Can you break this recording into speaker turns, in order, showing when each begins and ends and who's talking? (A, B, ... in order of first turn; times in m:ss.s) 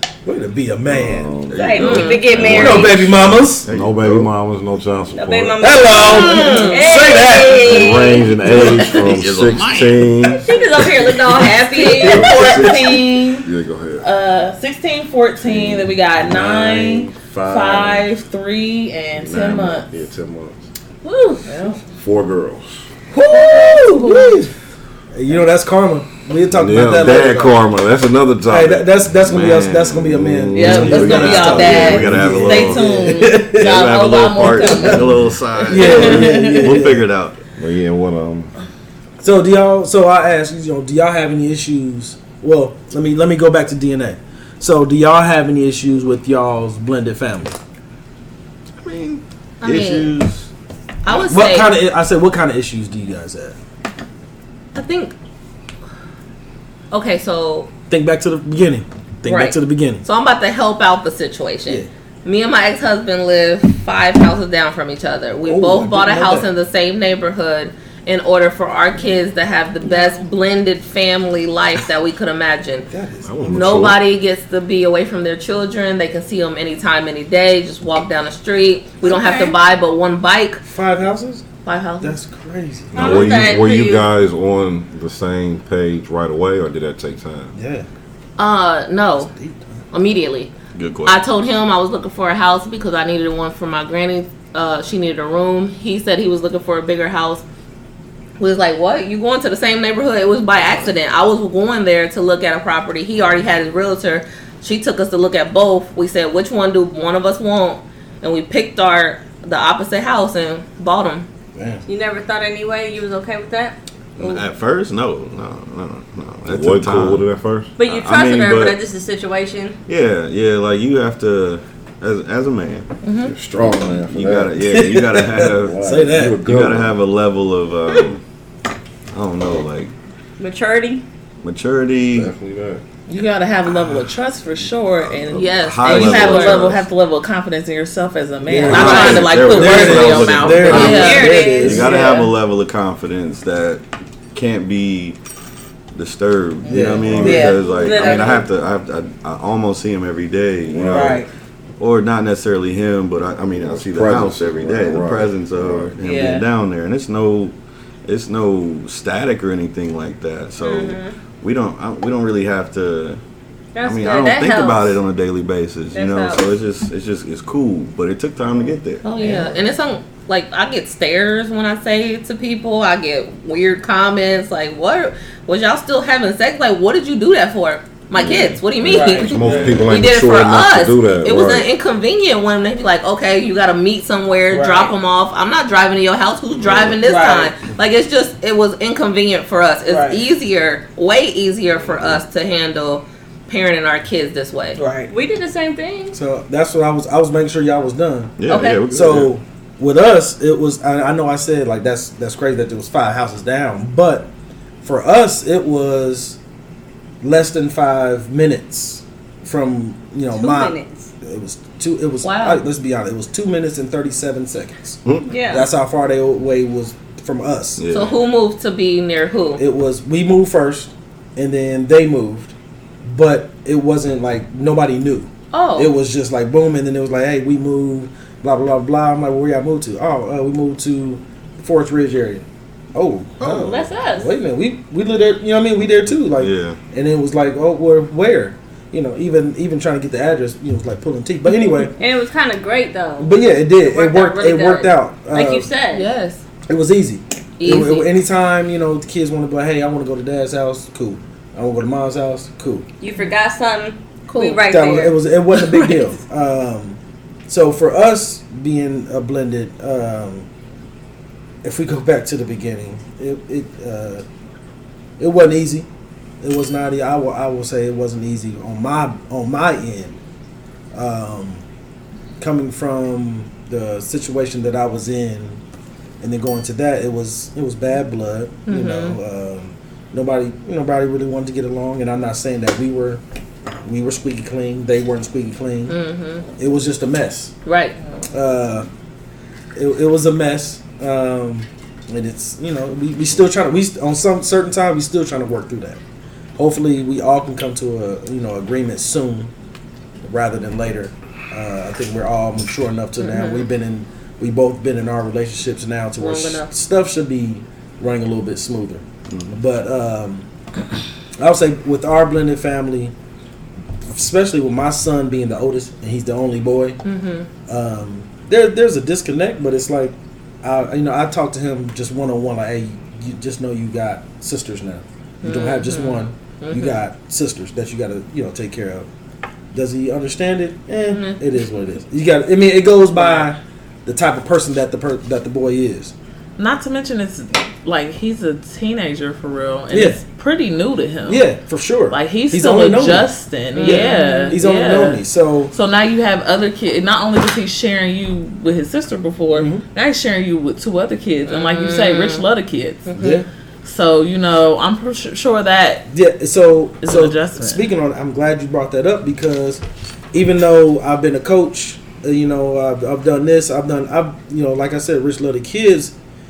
0:00.2-0:01.4 A
0:00.9-0:06.0 B
0:01.5-0:04.3 C
0:01.6-0:02.9 D
0:01.8-0:02.2 E
0:02.4-0:03.7 A
0:05.1-0:08.3 D
0:05.6-0:08.8 A
0:06.1-0:06.8 E
0:07.5-0:10.5 B
0:08.4-0:10.4 C
0:10.4-0:12.2 D
0:11.7-0:14.0 B
0:11.7-0:13.5 F
0:11.9-0:12.7 E
0:14.0-0:19.9 F
0:15.4-0:18.1 B
0:19.2-0:20.6 B
0:21.0-0:21.4 D
0:21.4-0:21.8 F
0:22.0-0:22.9 B
0:23.1-0:24.5 A
0:23.6-0:24.4 F
0:25.1-0:27.6 A
0:26.5-0:29.0 B
0:28.5-0:33.8 A
0:29.2-0:37.4 C
0:29.9-0:32.2 B
0:30.5-0:36.7 F
0:33.8-0:34.9 E
0:34.7-0:37.1 A
0:37.6-0:38.5 B
0:39.2-0:47.6 A
0:48.8-0:50.5 C
0:49.6-0:50.2 E
0:51.0-0:51.7 E
0:51.3-0:53.6 A
0:54.7-0:55.1 E
0:56.9-0:57.7 E
0:57.9-1:00.0 A
0:59.2-1:12.9 E
1:05.4-1:06.5 A
1:12.9-1:13.4 A
1:13.2-1:14.0 B
1:13.4-1:20.6 E
1:19.0-1:19.6 D
1:20.6-1:21.5 A
1:21.6-1:22.2 E
1:22.0-1:23.2 A
1:22.9-1:27.5 B
1:22.9-1:24.1 D
1:23.1-1:23.5 C
1:27.5-1:27.9 A
1:28.4-1:29.3 E
1:29.2-1:29.8 A
1:29.9-1:30.5 E
1:30.7-1:31.2 C
1:31.0-1:37.4 E
1:38.4-1:51.3 E
1:51.5-1:51.8 A
1:51.8-1:54.4 D
1:54.2-1:57.2 C
1:56.4-1:57.7 B
1:57.8-1:59.8 D
1:57.8-1:58.8 C
1:59.9-2:02.9 C
2:03.0-2:03.3 E
2:03.2-2:07.0 B
2:04.0-2:05.9 C
2:04.7-2:06.4 A
2:06.4-2:08.2 C
2:09.1-2:09.9 C
2:10.4-2:11.0 D
2:11.4-2:12.3 C
2:12.1-2:12.8 B
2:13.1-2:22.3 F
2:15.2-2:15.4 B
2:15.3-2:16.8 E
2:15.3-2:16.8 C
2:18.4-2:21.9 A
2:18.6-2:25.2 C
2:20.7-2:21.8 D
2:25.9-2:31.2 C
2:26.6-2:28.4 F
2:26.7-2:27.5 A
2:27.0-2:27.5 B
2:27.6-2:28.4 D
2:30.7-2:31.2 B
2:30.8-2:31.3 F
2:31.8-2:43.2 C
2:33.6-2:36.0 B
2:36.0-2:36.4 F
2:40.6-2:41.1 D
2:43.7-2:45.0 D
2:43.8-2:49.0 C
2:45.9-2:46.4 D
2:49.0-3:14.8 E
2:49.2-2:49.5 F
2:58.2-3:01.7 B
2:58.8-2:59.9 F
2:59.4-2:59.8 C
3:04.5-3:04.9 F
3:07.0-3:07.5 F
3:09.8-3:10.2 F
3:14.8-3:15.1 F
3:15.1-3:16.2 D
3:16.1-3:24.3 A
3:18.4-3:19.3 C
3:18.5-3:18.9 E
3:24.8-3:26.4 A
3:27.2-3:37.8 A
3:30.4-3:31.1 D
3:32.2-3:32.6 E
3:35.3-3:35.7 D
3:37.8-3:38.2 C
3:37.9-3:39.6 E
3:39.6-3:42.5 A
3:43.0-4:01.9 A
3:45.5-3:45.9 E
3:53.4-3:53.8 C
3:53.4-3:54.3 D
3:55.8-3:56.8 C
4:02.0-4:06.1 D
4:03.2-4:05.7 A
4:05.9-4:06.4 E
4:06.7-4:12.9 A
4:07.6-4:08.1 E
4:13.0-4:15.1 D
4:14.3-4:14.6 E
4:14.6-4:20.5 A
4:15.5-4:16.0 E
4:21.6-4:24.2 A
4:25.2-4:25.9 A
4:26.4-4:30.2 A
4:30.9-4:31.6 A
4:32.4-4:35.6 A
4:36.2-4:43.2 A
4:38.7-4:39.2 E
4:43.8-4:46.0 A
4:45.9-4:46.5 E
4:46.6-4:47.5 A
4:47.6-4:48.0 E
4:48.3-4:48.9 A
4:49.7-4:56.0 A
4:56.6-4:59.5 A
5:00.2-5:10.5 A
5:03.3-5:03.6 E
5:06.2-5:06.7 E
5:09.3-5:09.6 C
5:11.4-5:13.1 A
5:14.1-5:17.0 A
5:17.0-5:17.5 E
5:17.7-5:29.1 A
5:25.4-5:27.0 E
5:29.7-5:36.1 A
5:31.0-5:31.4 E
5:33.2-5:33.4 F
5:36.6-5:41.5 F
5:39.9-5:40.2 A
5:41.2-5:45.7 A
5:42.1-5:53.2 F
5:43.7-5:44.6 E
5:49.5-5:49.8 A
5:51.5-5:52.4 E
5:53.1-5:53.4 E
5:53.1-5:53.5 A
5:53.8-5:56.1 F
5:56.1-6:06.1 A
5:57.0-5:57.8 F